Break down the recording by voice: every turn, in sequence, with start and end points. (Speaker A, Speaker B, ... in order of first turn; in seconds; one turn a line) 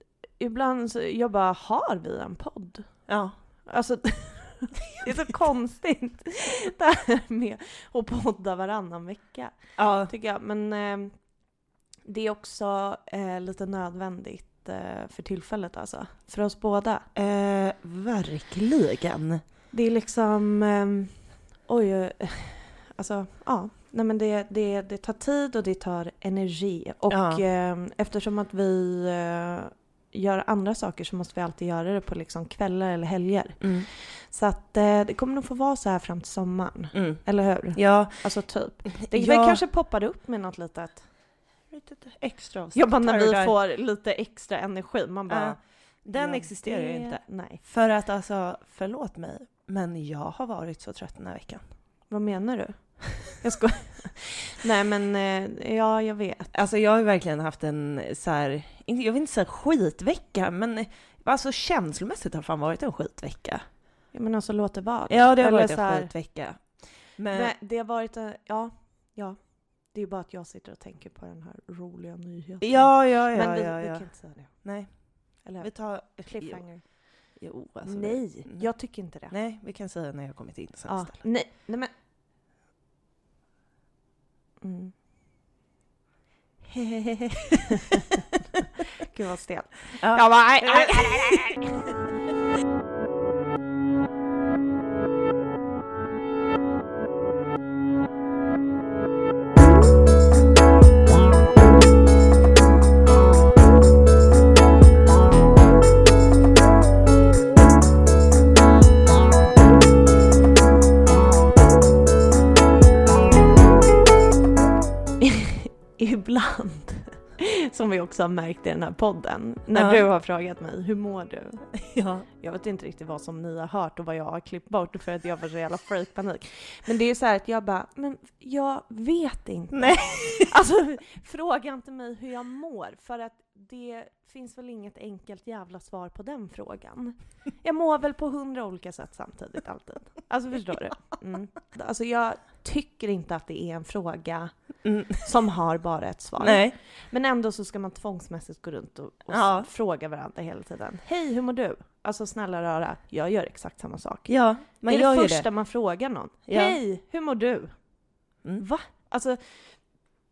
Speaker A: 0.4-2.9
Speaker B: 3.1-3.4
Speaker A: 3.7-9.6
Speaker B: 4.9-5.3
Speaker B: 9.8-10.1
Speaker A: 10.1-11.1
Speaker A: 12.1-17.1
Speaker B: 17.1-19.4
Speaker A: 19.7-41.1
Speaker B: 27.1-27.4
Speaker B: 33.6-33.9
Speaker B: 36.9-37.2
Speaker B: 37.8-38.3
Speaker B: 38.9-39.6
Speaker B: 41.7-43.5
Speaker A: 42.8-45.6
Speaker B: 45.3-51.6
Speaker A: 46.1-47.6
Speaker A: 52.1-56.5
Speaker B: 56.5-63.6
Speaker A: 64.1-66.1
Speaker B: 65.1-67.5
Speaker A: 67.3-69.4
Speaker A: 69.9-74.5
Speaker B: 72.6-74.0
Speaker B: 74.6-74.9
Speaker A: 75.4-76.8
Speaker B: 75.6-76.7
Speaker B: 77.4-78.7
Speaker A: 77.8-79.3
Speaker B: 79.3-81.2
Speaker A: 80.9-81.9
Speaker A: 84.6-84.9
Speaker B: 86.6-88.2
Speaker A: 87.7-88.0
Speaker A: 89.0-91.9
Speaker B: 90.0-91.7
Speaker A: 115.2-121.6
Speaker B: 119.7-120.0
Speaker B: 121.8-122.3
Speaker A: 122.4-144.5
Speaker B: 129.7-130.5
Speaker B: 144.8-145.3
Speaker A: 145.2-154.3
Speaker B: 146.4-146.8
Speaker B: 149.3-149.7
Speaker B: 154.3-155.5
Speaker A: 154.9-157.7
Speaker B: 156.5-156.8
Speaker A: 158.6-159.6